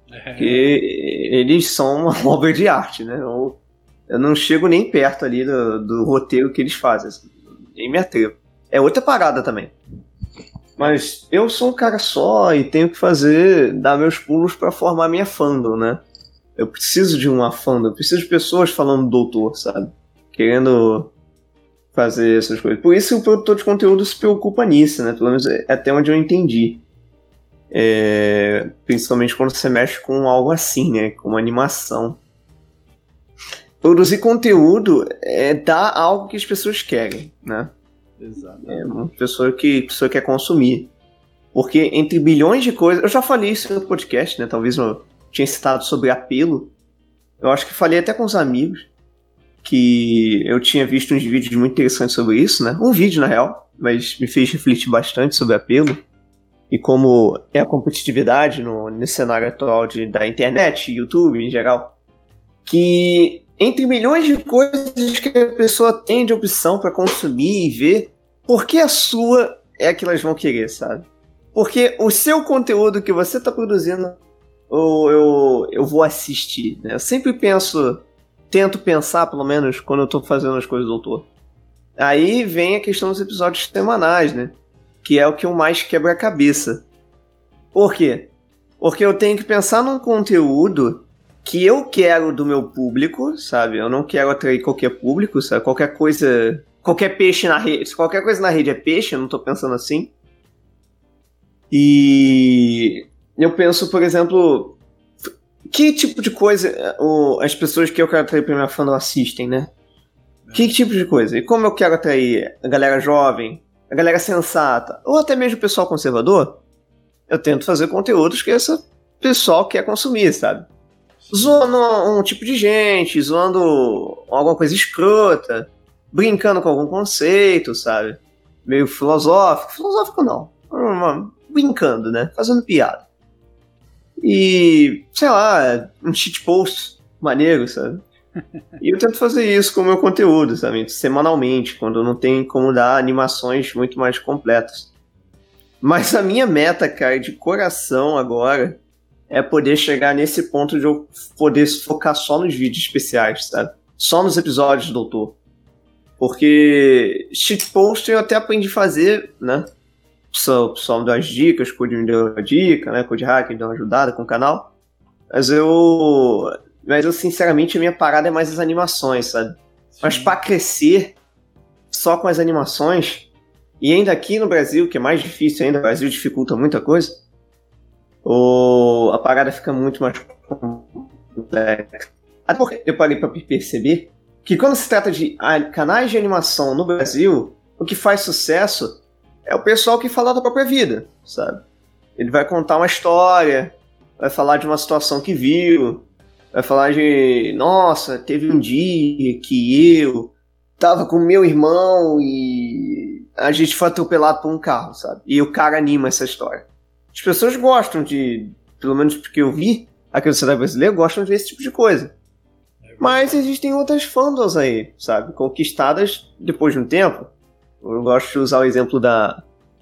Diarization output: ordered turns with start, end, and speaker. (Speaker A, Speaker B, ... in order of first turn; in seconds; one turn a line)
Speaker A: 0.1-0.8
Speaker B: 0.4-9.7
Speaker B: 10.8-16.0
Speaker B: 16.6-21.1
Speaker B: 21.9-26.8
Speaker B: 27.7-32.2
Speaker B: 33.8-37.7
Speaker A: 38.2-38.9
Speaker B: 38.7-40.9
Speaker B: 41.5-46.7
Speaker B: 47.4-48.9
Speaker B: 49.6-56.0
Speaker B: 56.7-62.0
Speaker B: 62.7-74.2
Speaker B: 74.7-81.3
Speaker B: 82.0-86.8
Speaker B: 87.7-100.1
Speaker B: 101.7-109.7
Speaker A: 110.5-110.8
Speaker B: 110.5-116.6
Speaker B: 117.3-120.7
Speaker A: 121.2-121.7
Speaker B: 121.3-133.1
Speaker B: 134.2-138.0
Speaker B: 138.8-144.9
Speaker B: 145.8-148.8
Speaker B: 149.3-155.4
Speaker B: 156.2-159.7
Speaker B: 160.3-164.7
Speaker B: 165.3-171.2
Speaker A: 169.9-170.4
Speaker B: 171.9-173.3
Speaker B: 173.8-177.2
Speaker B: 178.2-191.6
Speaker B: 192.2-212.1
Speaker A: 212.8-213.4
Speaker B: 213.0-219.4